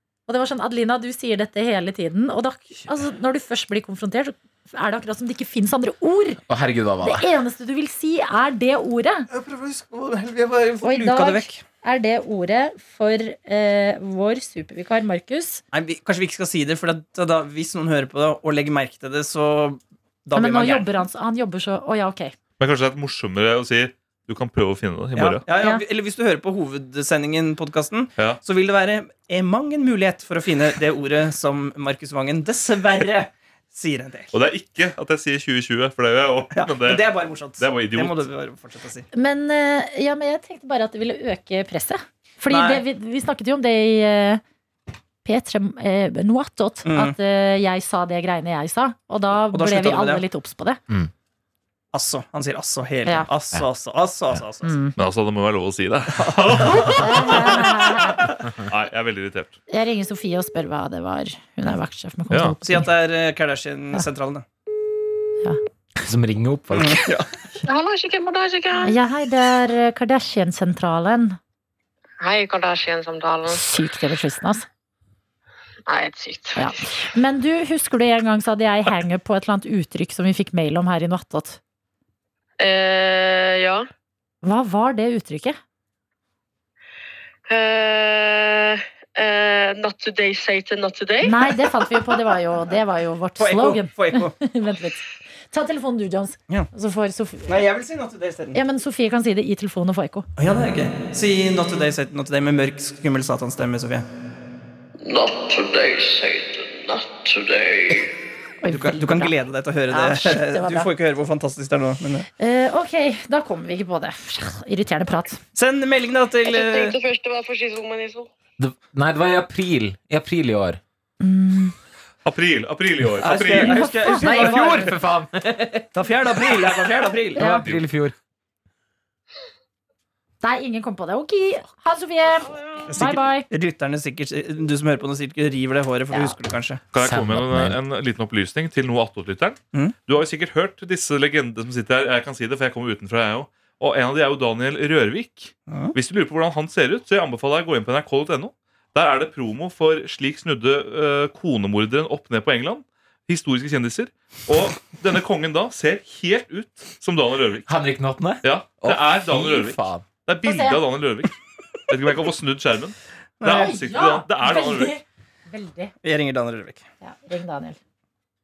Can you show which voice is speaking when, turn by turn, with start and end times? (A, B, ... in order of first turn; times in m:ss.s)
0:00.3-0:06.4 A
0:06.5-0:07.3 B
0:07.0-0:09.3 A
0:09.3-0:11.6 C
0:10.8-0:15.6 A
0:15.7-0:20.9 C
0:20.3-0:22.3 A
0:22.6-0:25.4 D
0:25.1-0:34.3 C
0:25.6-0:25.8 A
0:34.3-0:38.2 D
0:36.5-0:39.0 C
0:39.1-0:44.4 A
0:42.5-0:42.8 C
0:45.2-0:50.8 A
0:46.8-0:47.2 C
0:49.5-0:50.2 C
0:51.9-0:54.8 C
0:54.6-0:55.0 A
0:55.0-0:59.6 D
0:56.2-0:57.5 C
0:57.0-0:58.3 A
0:59.7-1:02.9 A
1:02.3-1:02.6 D
1:02.6-1:04.4 C
1:06.0-1:07.1 B
1:06.7-1:07.3 C
1:07.6-1:08.9 E
1:08.8-1:11.4 A
1:12.2-1:13.7 E
1:13.4-1:14.6 A
1:15.9-1:16.8 E
1:16.6-1:21.6 A
1:22.6-1:23.8 E
1:24.4-1:25.6 A
1:27.5-1:31.9 E
1:31.2-1:37.6 A
1:33.4-1:34.3 C
1:37.5-1:38.6 C
1:38.5-1:40.3 A
1:40.4-1:44.1 C
1:45.0-1:48.1 E
1:48.6-1:50.9 A
1:48.7-1:52.3 C
1:52.4-1:55.4 A
1:55.5-1:57.0 C
1:56.4-1:58.3 E
1:58.6-2:00.8 B
2:01.2-2:01.7 A
2:02.2-2:03.8 D
2:03.2-2:04.9 C
2:03.5-2:04.6 A
2:04.1-2:06.7 B
2:05.9-2:07.5 C
2:07.3-2:08.1 B
2:07.3-2:07.7 A
2:07.4-2:07.8 D
2:10.4-2:13.5 A
2:12.9-2:16.8 C
2:16.9-2:37.7 D
2:17.0-2:17.8 B
2:19.7-2:20.0 C
2:25.7-2:25.9 C
2:37.7-2:40.1 B
2:38.4-2:41.3 D
2:40.4-2:40.8 A
2:41.9-2:45.0 D
2:43.4-2:44.0 C
2:43.5-2:45.9 A
2:46.0-2:46.8 C
2:47.0-2:47.8 A